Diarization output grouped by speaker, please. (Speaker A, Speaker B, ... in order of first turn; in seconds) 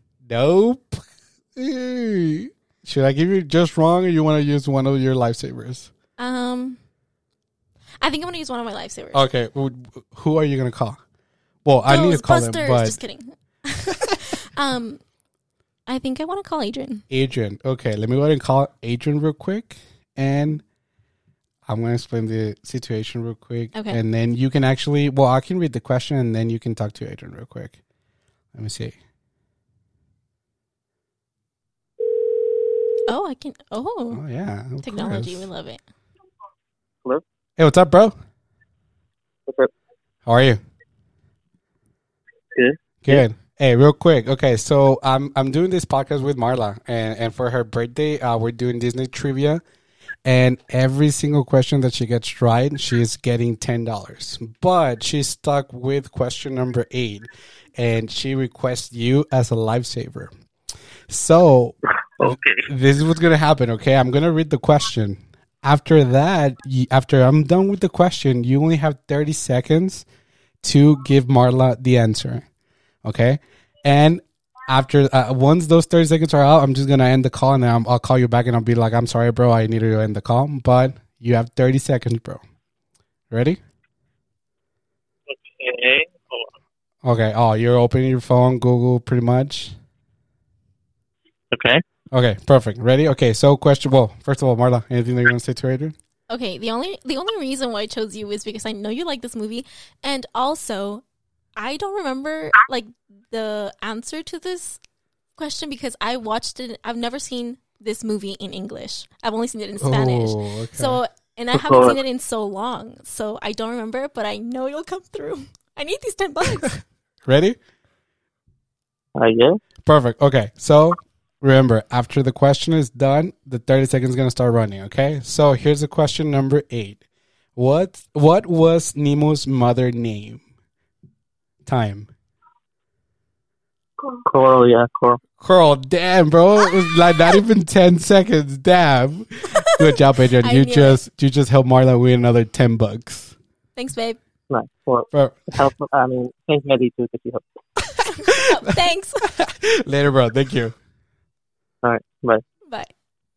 Speaker A: 0.2-5.9, 9.1-11.0, 11.7-13.0, 17.1-20.6, 21.7-27.8, 28.5-29.0, 34.1-35.5, 37.6-38.1, 40.3-40.6, 43.0-49.6, 50.2-60.3, 61.1-70.1, 70.6-72.5, 73.0-82.4, 83.3-83.6, 87.0-89.8, 92.1-96.0, 109.8-111.0, 117.2-117.6, 119.9-127.0, 127.6-130.4, 131.7-132.1, 135.4-143.3, 145.1-145.6, 148.3-150.8
Speaker B: 6.2-6.8, 8.0-9.2, 11.9-15.0, 15.9-17.1, 23.7-24.0, 33.1-34.2, 34.8-35.8, 96.3-101.0, 101.6-104.8, 105.4-116.8, 139.7-141.0, 143.8-144.2, 148.0-149.3, 152.7-152.9
Speaker C: 42.5-43.2, 62.2-62.7, 85.3-86.5, 91.5-91.8, 111.5-112.0, 119.2-119.6, 134.0-135.2, 144.5-147.4, 151.8-152.4